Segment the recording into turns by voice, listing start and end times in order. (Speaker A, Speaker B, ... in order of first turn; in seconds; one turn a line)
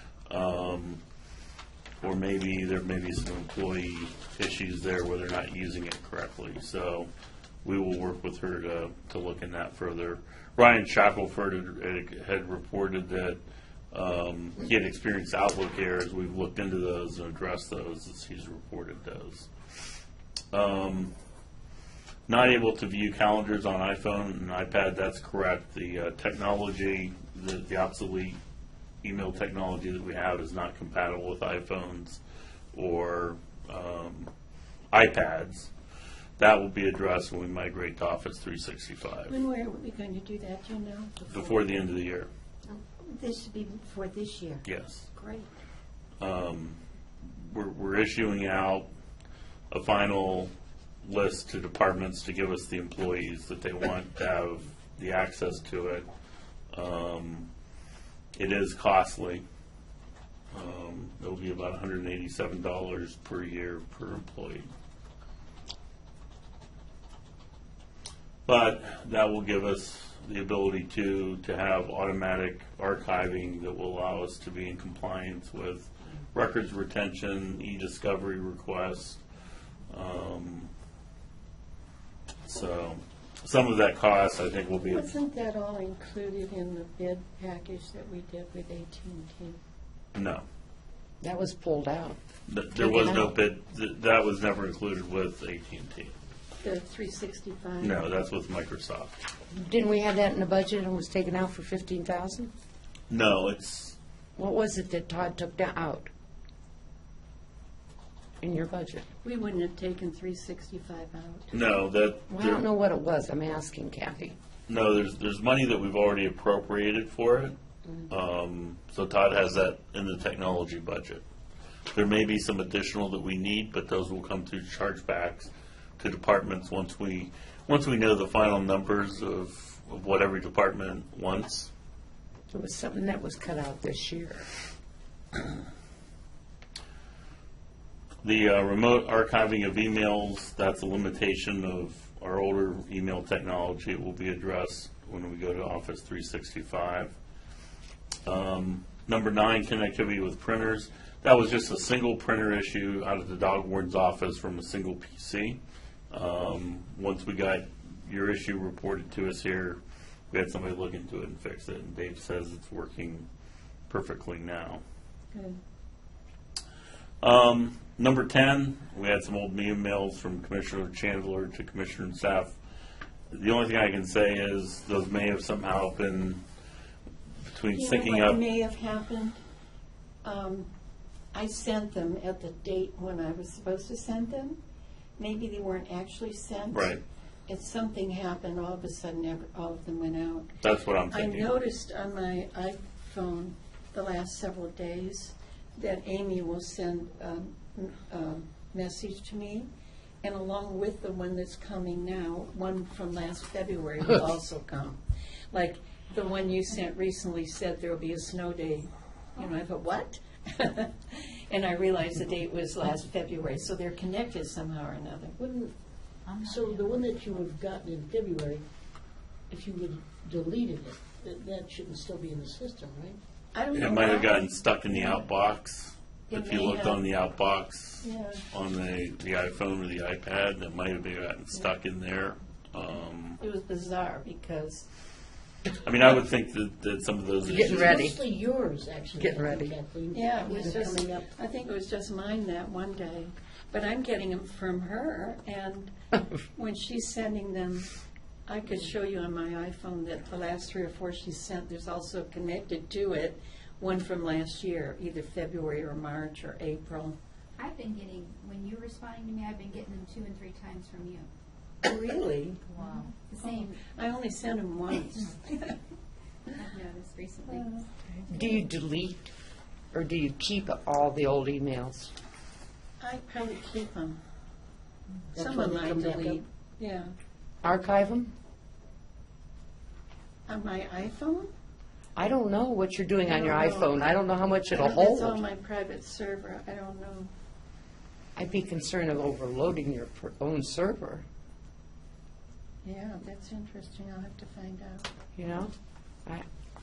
Speaker A: 0.3-1.0
Speaker A: 2.0-7.1
Speaker A: 7.6-13.4
Speaker A: 13.9-19.5
Speaker A: 20.5-21.1
Speaker A: 22.3-28.4
Speaker A: 29.0-32.2
Speaker A: 32.7-34.3
Speaker A: 34.9-35.7
Speaker A: 36.4-39.3
Speaker B: 39.3-41.6
Speaker A: 41.3-42.3
Speaker A: 44.6-45.1
Speaker B: 45.1-45.5
Speaker A: 46.2-46.8
Speaker A: 47.4-48.9
Speaker A: 49.7-50.5
Speaker A: 51.0-56.1
Speaker A: 56.7-57.5
Speaker A: 58.4-59.4
Speaker A: 60.5-64.7
Speaker A: 68.5-79.2
Speaker A: 79.9-80.7
Speaker A: 82.5-85.1
Speaker B: 84.8-89.6
Speaker A: 90.1-90.4
Speaker C: 91.2-92.2
Speaker A: 92.5-96.1
Speaker C: 92.7-93.3
Speaker B: 96.6-98.0
Speaker A: 97.8-99.2
Speaker C: 99.5-102.5
Speaker A: 103.1-104.0
Speaker C: 104.4-106.1
Speaker C: 108.4-109.0
Speaker B: 109.2-111.6
Speaker A: 111.5-112.6
Speaker C: 112.3-114.3
Speaker A: 114.7-117.5
Speaker A: 118.1-121.2
Speaker A: 121.9-131.7
Speaker C: 132.5-134.5
Speaker A: 138.2-147.1
Speaker A: 148.2-159.8
Speaker A: 160.3-163.3
Speaker A: 163.9-164.8
Speaker A: 167.2-172.6
Speaker A: 173.3-176.4
Speaker A: 177.5-178.4
Speaker B: 177.7-179.4
Speaker B: 180.2-180.7
Speaker B: 181.3-184.6
Speaker B: 185.2-186.9
Speaker A: 186.7-187.0
Speaker B: 187.5-190.6
Speaker A: 190.6-191.5
Speaker B: 191.1-199.7
Speaker B: 200.2-215.3
Speaker D: 215.4-215.7
Speaker E: 216.2-217.1
Speaker D: 216.4-218.7
Speaker D: 219.5-223.2
Speaker B: 223.5-225.2
Speaker A: 223.7-233.4
Speaker B: 226.3-227.0
Speaker B: 228.0-228.4
Speaker B: 233.4-234.9
Speaker A: 235.8-238.0
Speaker C: 237.4-238.2
Speaker D: 237.5-241.3
Speaker C: 239.2-239.7
Speaker B: 240.1-245.9
Speaker B: 246.5-247.9
Speaker B: 248.5-257.2
Speaker E: 257.6-261.3
Speaker B: 261.8-262.6
Speaker E: 262.7-263.8
Speaker B: 263.4-265.7
Speaker E: 266.5-267.8
Speaker B: 267.5-267.8
Speaker C: 268.3-269.3
Speaker C: 269.9-272.1
Speaker B: 273.0-274.2
Speaker D: 275.3-276.4
Speaker B: 275.4-277.1
Speaker C: 277.6-278.3
Speaker B: 280.5-281.5
Speaker C: 282.1-285.4
Speaker B: 283.2-283.9
Speaker B: 284.7-287.3
Speaker C: 288.4-291.2
Speaker B: 292.8-295.1
Speaker C: 295.4-295.7